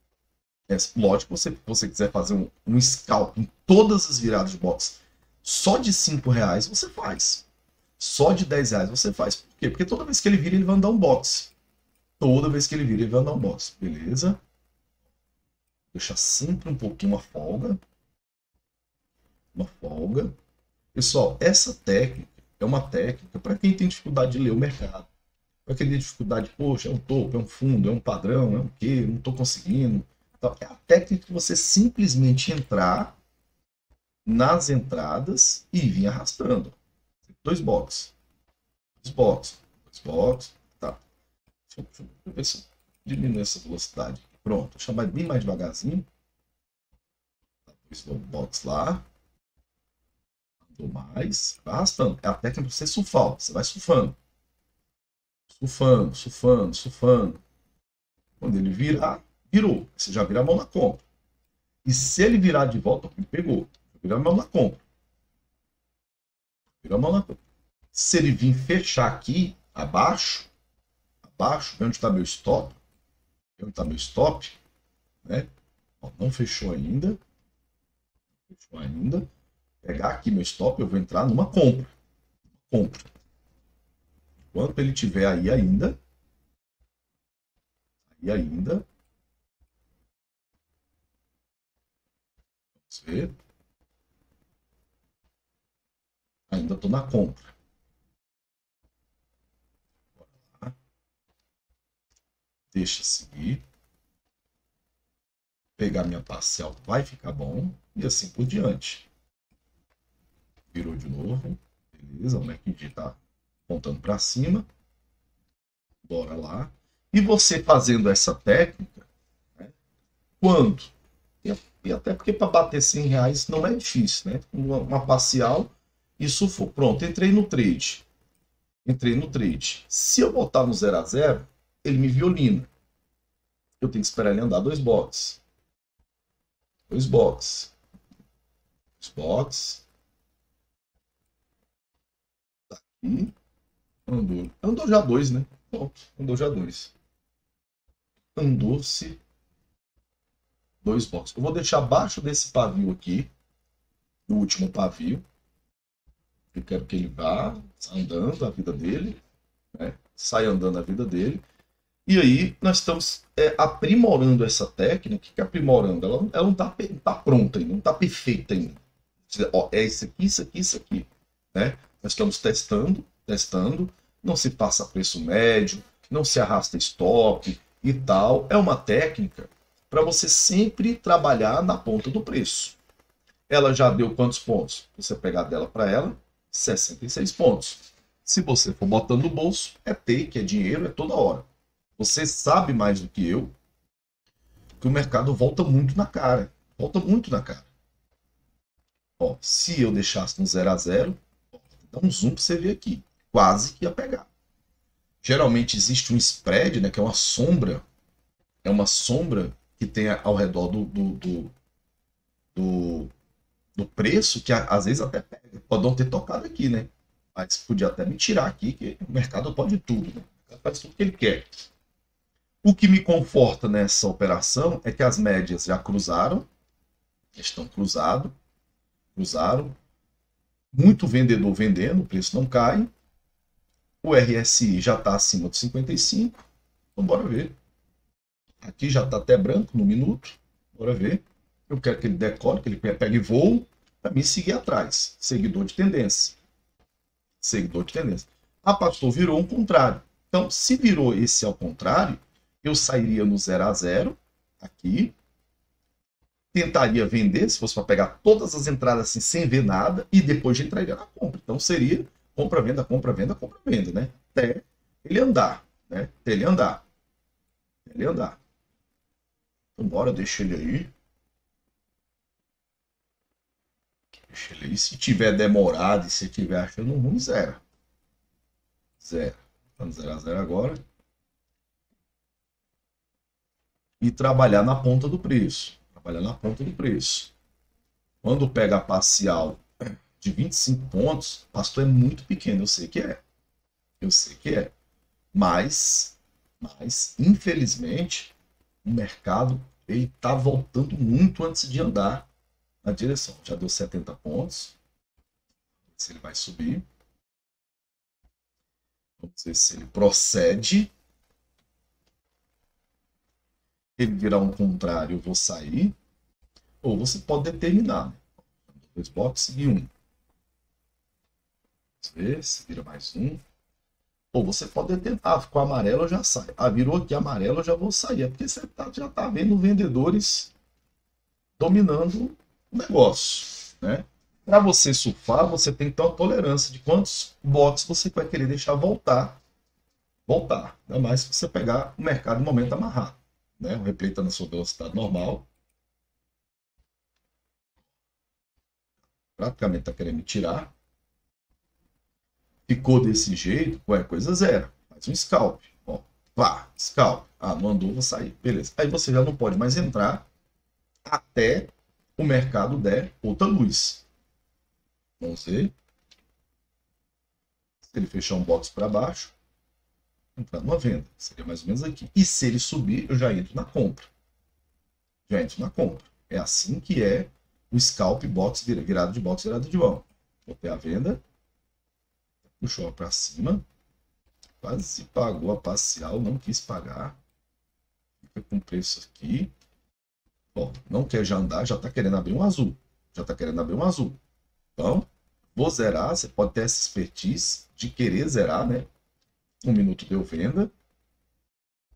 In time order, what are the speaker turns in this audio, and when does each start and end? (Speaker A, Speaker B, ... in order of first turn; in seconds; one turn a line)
Speaker A: 0.7-7.5
Speaker A: 8.0-11.5
Speaker A: 12.2-14.4
Speaker A: 15.9-17.8
Speaker A: 19.5-20.4
Speaker A: 20.9-25.1
Speaker A: 25.6-33.1
Speaker A: 34.2-36.8
Speaker A: 37.3-38.1
Speaker A: 39.0-41.0
Speaker A: 41.7-46.1
Speaker A: 47.7-49.0
Speaker A: 50.7-54.2
Speaker A: 55.5-57.4
Speaker A: 58.4-61.0
Speaker A: 61.8-64.8
Speaker A: 66.8-67.4
Speaker A: 67.9-70.5
Speaker A: 71.2-72.8
Speaker A: 73.6-74.6
Speaker A: 75.2-75.5
Speaker A: 76.0-77.2
Speaker A: 78.5-79.3
Speaker A: 79.8-81.9
Speaker A: 82.6-83.1
Speaker A: 84.5-86.0
Speaker A: 88.1-88.8
Speaker A: 92.8-93.4
Speaker A: 96.5-97.5
Speaker A: 100.2-100.8
Speaker A: 102.7-103.6
Speaker A: 105.8-109.0
Speaker A: 110.7-114.7
Speaker A: 116.0-119.7
Speaker A: 120.4-128.1
Speaker A: 128.8-132.7
Speaker A: 133.8-135.4
Speaker A: 136.9-137.7
Speaker A: 139.0-139.8
Speaker A: 142.7-143.3
Speaker A: 144.1-146.9
Speaker A: 148.3-149.2
Speaker A: 150.8-153.3
Speaker A: 154.3-155.2
Speaker A: 156.5-159.2
Speaker A: 159.7-161.4
Speaker A: 162.1-182.8
Speaker A: 183.5-191.4
Speaker A: 192.0-193.5
Speaker A: 194.8-197.7
Speaker A: 199.2-204.3
Speaker A: 205.2-207.8
Speaker A: 208.6-211.5
Speaker A: 212.5-213.1
Speaker A: 213.8-221.7
Speaker A: 222.6-226.5
Speaker A: 227.3-228.3
Speaker A: 229.1-229.8
Speaker A: 230.7-232.9
Speaker A: 234.0-236.4
Speaker A: 236.9-237.5
Speaker A: 238.6-246.4
Speaker A: 247.4-255.1
Speaker A: 256.5-266.8
Speaker A: 267.8-268.4
Speaker A: 269.7-270.9
Speaker A: 274.3-277.6
Speaker A: 279.0-280.8
Speaker A: 284.0-287.3
Speaker A: 288.2-289.6
Speaker A: 290.2-293.2
Speaker A: 294.0-294.7
Speaker A: 295.3-302.3
Speaker A: 302.8-304.8
Speaker A: 305.9-306.8
Speaker A: 309.2-310.9
Speaker A: 314.0-315.9
Speaker A: 316.8-319.9
Speaker A: 322.0-323.4
Speaker A: 324.3-330.5
Speaker A: 331.6-339.4
Speaker A: 340.3-345.5
Speaker A: 349.4-350.7
Speaker A: 352.7-360.2
Speaker A: 361.1-364.1
Speaker A: 365.2-365.7
Speaker A: 367.8-369.3
Speaker A: 370.4-374.1
Speaker A: 375.3-381.2
Speaker A: 382.6-383.6
Speaker A: 384.6-387.2
Speaker A: 388.2-389.5
Speaker A: 390.5-394.2
Speaker A: 394.8-398.9
Speaker A: 399.6-400.7